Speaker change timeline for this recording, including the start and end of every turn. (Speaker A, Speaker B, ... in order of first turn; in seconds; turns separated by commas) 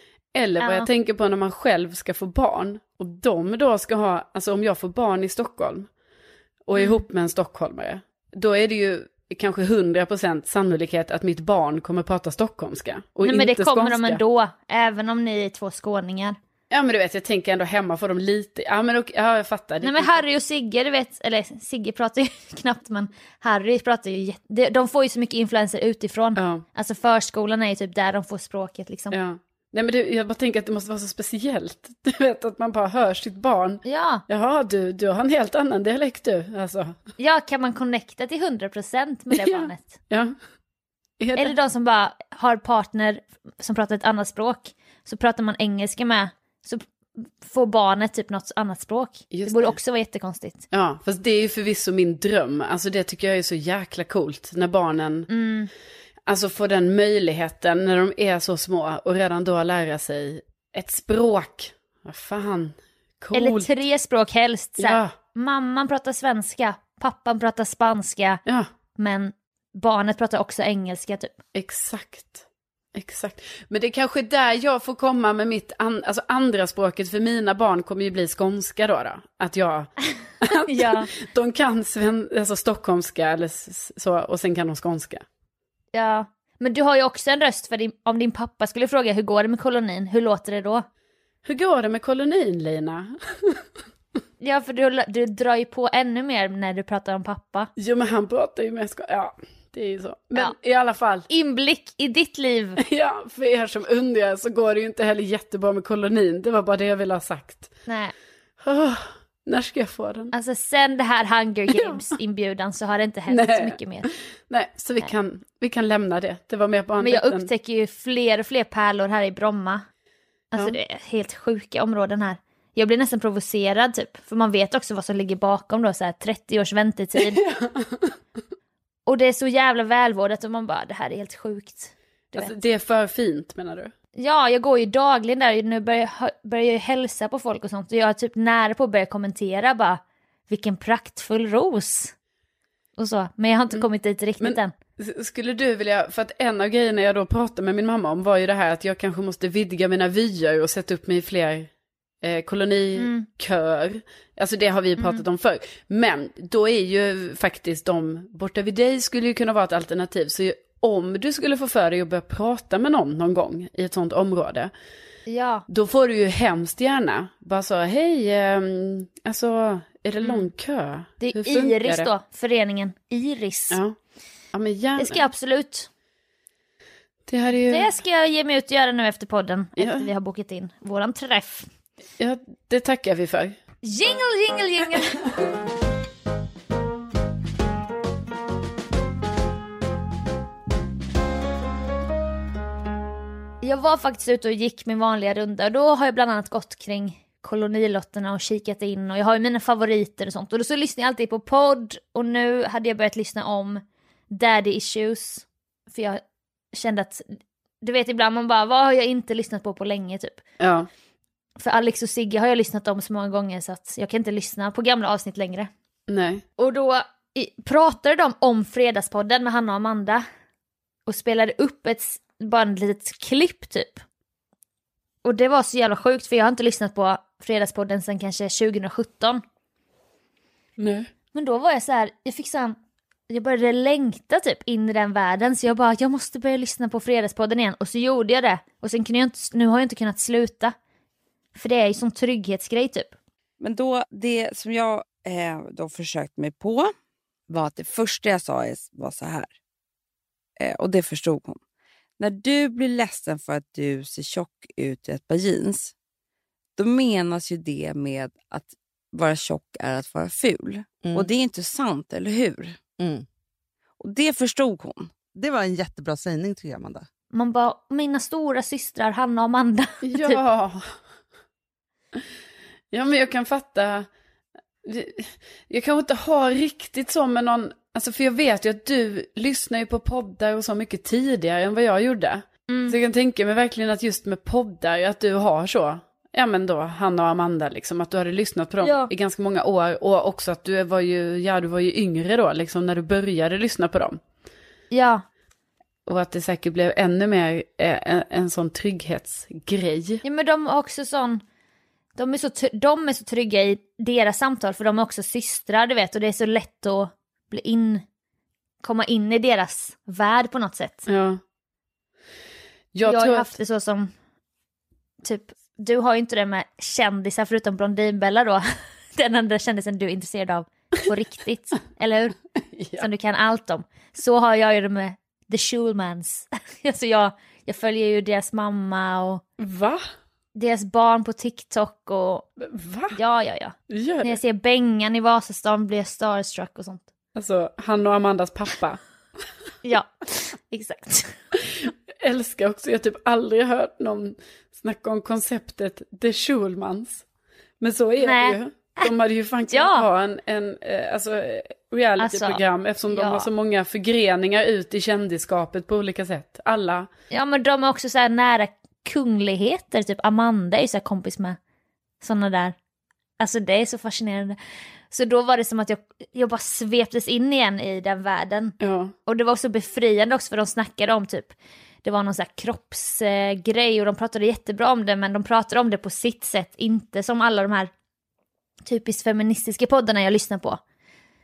Speaker A: 0.3-5.9, Speaker B: 0.6-0.9, Speaker A: 6.7-14.2, Speaker B: 13.2-16.4, Speaker A: 16.7-20.2, Speaker B: 19.8-29.2, Speaker A: 26.4-26.6, Speaker A: 29.1-37.0, Speaker B: 33.8-34.2, Speaker B: 37.2-40.0, Speaker A: 39.3-40.3, Speaker A: 41.2-41.5, Speaker B: 41.4-50.6, Speaker A: 49.3-49.8, Speaker A: 50.7-55.3, Speaker B: 55.3-55.7, Speaker A: 56.3-63.7, Speaker B: 63.3-68.4, Speaker A: 64.8-65.1, Speaker B: 69.0-71.3, Speaker A: 71.5-85.2, Speaker B: 80.7-81.1, Speaker B: 85.9-90.8, Speaker A: 91.4-93.6, Speaker B: 94.4-97.7, Speaker A: 97.8-101.3, Speaker B: 101.3-102.8, Speaker A: 102.8-107.7, Speaker B: 107.9-108.1, Speaker A: 108.6-110.3, Speaker B: 110.3-114.1, Speaker A: 111.7-112.0, Speaker A: 113.3-113.8, Speaker A: 114.5-117.5, Speaker B: 117.0-119.8, Speaker B: 120.5-127.4, Speaker A: 127.2-128.1, Speaker B: 129.1-132.5, Speaker A: 132.3-133.9, Speaker B: 134.2-142.1, Speaker B: 143.0-144.7, Speaker A: 144.4-151.7, Speaker A: 152.2-164.7, Speaker B: 153.0-153.3, Speaker B: 155.0-155.2, Speaker B: 165.3-165.6, Speaker A: 165.7-172.1, Speaker B: 170.2-170.5, Speaker B: 171.2-173.8, Speaker A: 173.7-173.9, Speaker A: 174.5-175.2, Speaker B: 175.0-175.9, Speaker A: 177.3-177.9, Speaker B: 177.7-181.7, Speaker A: 179.8-180.1, Speaker A: 182.2-183.6, Speaker B: 183.8-185.2, Speaker B: 193.6-206.2, Speaker B: 206.7-210.4, Speaker A: 210.6-210.9, Speaker B: 211.6-215.7, Speaker A: 216.1-216.4, Speaker B: 216.6-220.2, Speaker B: 221.1-224.0, Speaker B: 225.2-229.4, Speaker A: 230.8-231.1, Speaker B: 231.3-232.8, Speaker B: 233.3-240.7, Speaker B: 241.5-243.1, Speaker C: 243.6-246.9, Speaker C: 247.5-249.5, Speaker C: 250.6-251.6, Speaker C: 252.2-255.9, Speaker C: 256.8-262.8, Speaker D: 261.0-261.3, Speaker D: 263.0-263.2, Speaker C: 264.0-265.1, Speaker D: 265.3-267.1, Speaker B: 267.3-270.4, Speaker A: 270.0-270.8, Speaker A: 272.9-274.1, Speaker A: 274.8-294.2, Speaker B: 282.7-283.0, Speaker B: 288.8-289.1, Speaker B: 294.9-295.2, Speaker A: 296.1-300.2, Speaker B: 300.2-301.4, Speaker B: 302.1-308.0, Speaker B: 308.8-311.1, Speaker A: 311.1-311.4, Speaker A: 312.9-313.5, Speaker B: 313.0-314.1, Speaker B: 315.2-318.6, Speaker B: 319.1-322.4, Speaker A: 322.7-323.1, Speaker B: 323.0-329.4, Speaker A: 329.6-330.0, Speaker B: 330.5-332.5, Speaker A: 332.6-333.2, Speaker B: 333.1-337.0, Speaker A: 333.9-334.4, Speaker A: 337.4-339.0, Speaker B: 339.8-341.4, Speaker A: 341.9-347.2, Speaker A: 347.8-357.1, Speaker B: 348.2-349.1, Speaker B: 349.7-350.1, Speaker B: 352.2-353.5, Speaker B: 357.3-361.6, Speaker B: 362.2-362.7, Speaker B: 363.4-364.6, Speaker B: 365.1-371.5, Speaker A: 368.8-369.1, Speaker B: 372.0-377.9, Speaker B: 378.8-380.8